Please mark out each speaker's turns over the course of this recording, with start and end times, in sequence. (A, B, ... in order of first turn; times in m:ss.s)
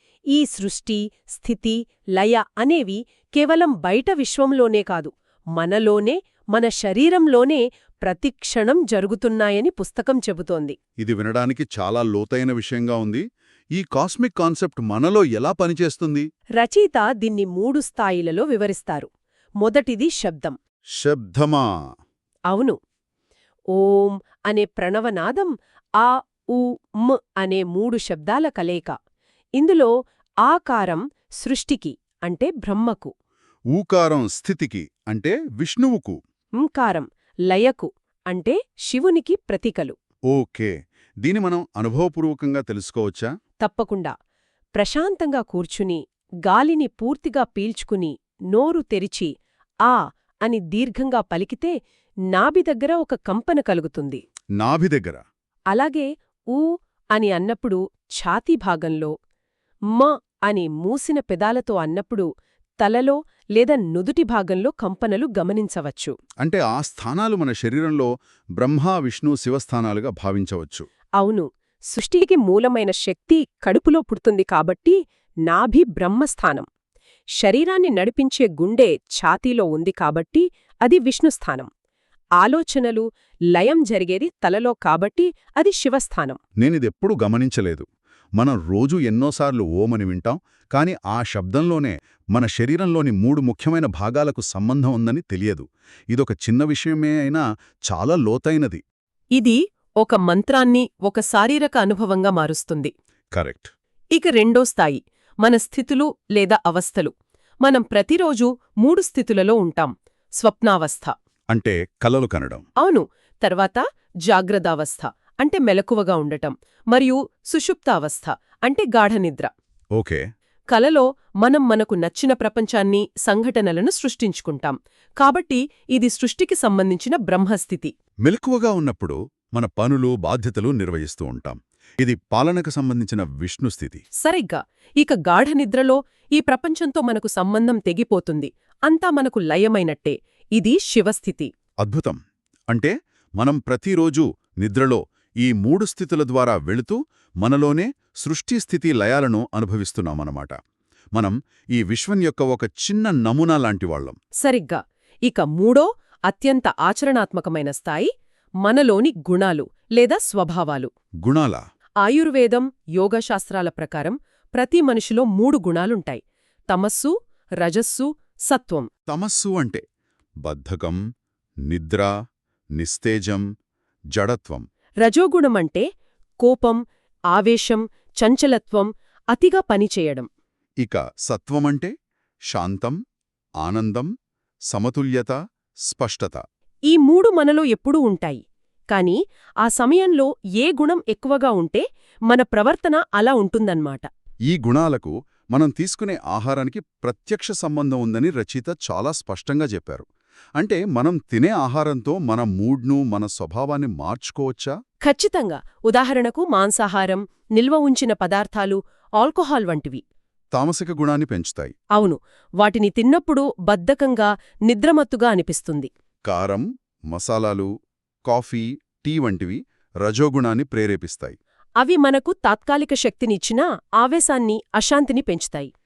0:00.3-0:10.8 A
0:11.0-0:13.2 B
0:13.8-0:16.3 B
0:16.6-0:19.1 A
0:19.6-0:20.6 A
0:21.0-0:21.6 B
0:22.5-0:22.8 A
0:23.7-0:28.9 A
0:29.6-0:29.9 A
0:30.4-0:33.1 A
0:33.7-0:36.2 B
0:36.6-0:40.0 A
0:40.3-0:43.3 B
0:43.6-0:44.1 A
0:44.8-0:49.3 A
0:49.8-0:51.7 A
0:52.3-0:54.2 A
0:54.6-0:55.2 B
0:55.7-0:59.1 A
0:59.9-1:02.3 A
1:02.8-1:06.1 A
1:06.4-1:10.9 B
1:11.2-1:16.6 A
1:17.4-1:21.7 A
1:22.4-1:26.4 A
1:26.6-1:38.8 B
1:39.4-1:42.9 A
1:43.3-1:43.7 B
1:44.1-1:47.1 A
1:47.6-1:51.1 A
1:51.5-1:52.6 B
1:52.8-1:59.5 A
2:00.0-2:00.2 B
2:00.7-2:07.9 A
2:08.2-2:14.0 B
2:14.2-2:21.5 A
2:21.8-2:22.2 B
2:22.7-2:30.5 B
2:31.2-2:34.2 B
2:34.4-2:38.1 A
2:38.6-2:40.9 A
2:41.2-2:41.6 B
2:42.0-2:48.9 A
2:49.1-2:49.8 B
2:50.4-2:51.0 B
2:51.7-2:52.1 B
2:52.8-2:53.4 B
2:54.2-2:54.6 B
2:55.0-2:55.8 A
2:56.4-2:56.8 A
2:57.3-3:00.3 A
3:00.8-3:01.9 B
3:02.5-3:03.0 B
3:03.6-3:04.1 B
3:04.7-3:05.3 B
3:05.9-3:06.4 B
3:06.9-3:14.1 A
3:14.5-3:20.0 B
3:20.6-3:24.7 B
3:25.0-3:30.0 A
3:30.5-3:31.7 B
3:32.0-3:35.9 A
3:36.3-3:37.7 B
3:38.3-3:41.4 B
3:41.8-3:45.7 A